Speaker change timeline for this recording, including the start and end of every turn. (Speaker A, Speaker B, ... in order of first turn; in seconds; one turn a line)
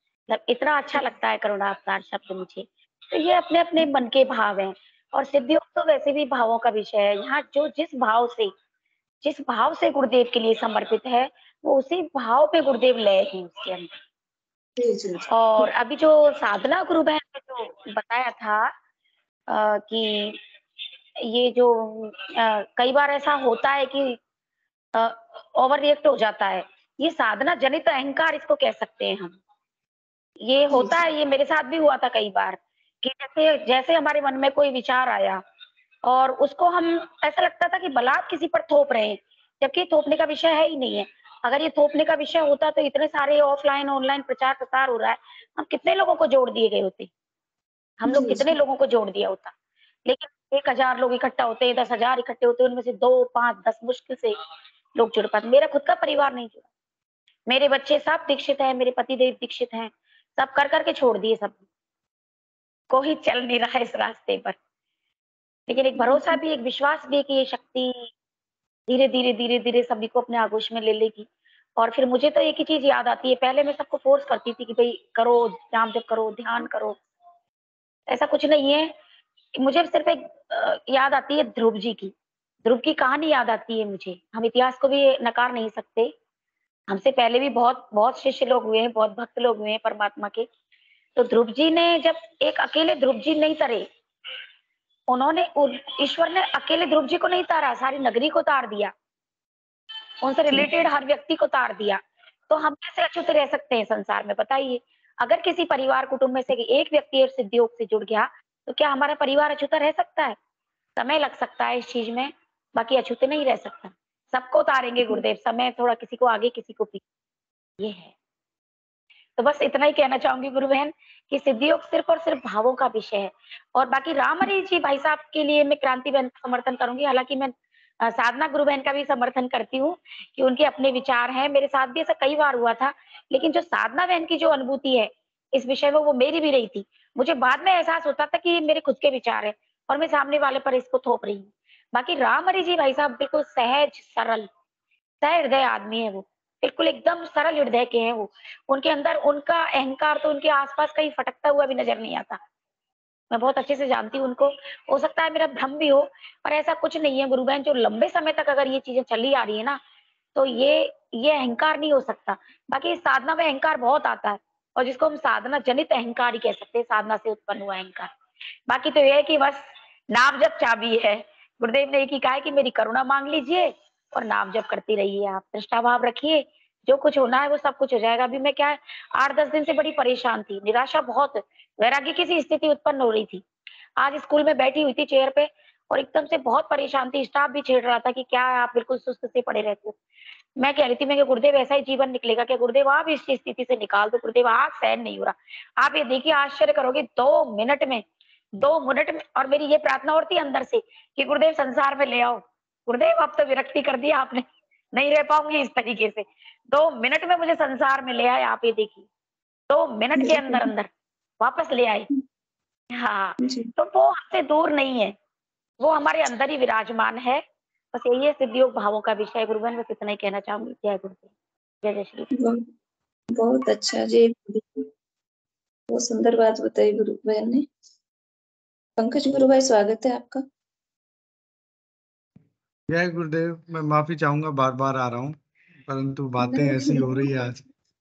Speaker A: 0.3-8.5
Speaker A: 9.2-13.9
Speaker B: 14.8-15.7
Speaker A: 15.3-18.7
Speaker A: 19.5-20.4
Speaker A: 21.3-24.2
Speaker A: 24.9-29.4
Speaker A: 30.4-35.4
Speaker B: 30.7-31.0
Speaker A: 36.0-47.1
Speaker A: 48.0-49.5
Speaker B: 48.0-48.5
Speaker A: 50.0-54.4
Speaker A: 55.0-56.6
Speaker A: 57.5-61.6
Speaker A: 62.9-64.5
Speaker A: 65.7-68.1
Speaker B: 66.0-66.4
Speaker A: 68.9-77.0
Speaker A: 78.1-78.9
Speaker A: 79.6-82.1
Speaker A: 82.6-86.1
Speaker A: 86.9-90.5
Speaker A: 91.2-93.9
Speaker A: 95.1-98.9
Speaker A: 100.2-110.3
Speaker A: 111.0-117.0
Speaker A: 117.8-118.1
Speaker A: 119.4-144.5
Speaker A: 145.2-152.4
Speaker A: 153.3-159.8
Speaker A: 160.3-168.1
Speaker A: 168.7-183.4
Speaker A: 184.0-189.9
Speaker A: 190.6-198.0
Speaker A: 198.6-209.1
Speaker A: 209.7-210.9
Speaker B: 210.2-210.7
Speaker A: 211.4-212.1
Speaker A: 212.9-215.1
Speaker B: 213.4-213.7
Speaker A: 215.8-217.4
Speaker A: 217.9-221.3
Speaker A: 221.8-222.3
Speaker B: 222.3-222.7
Speaker B: 223.3-224.9
Speaker B: 225.9-227.7
Speaker B: 229.0-230.4
Speaker C: 232.9-235.4
Speaker C: 235.9-237.6
Speaker B: 236.4-237.5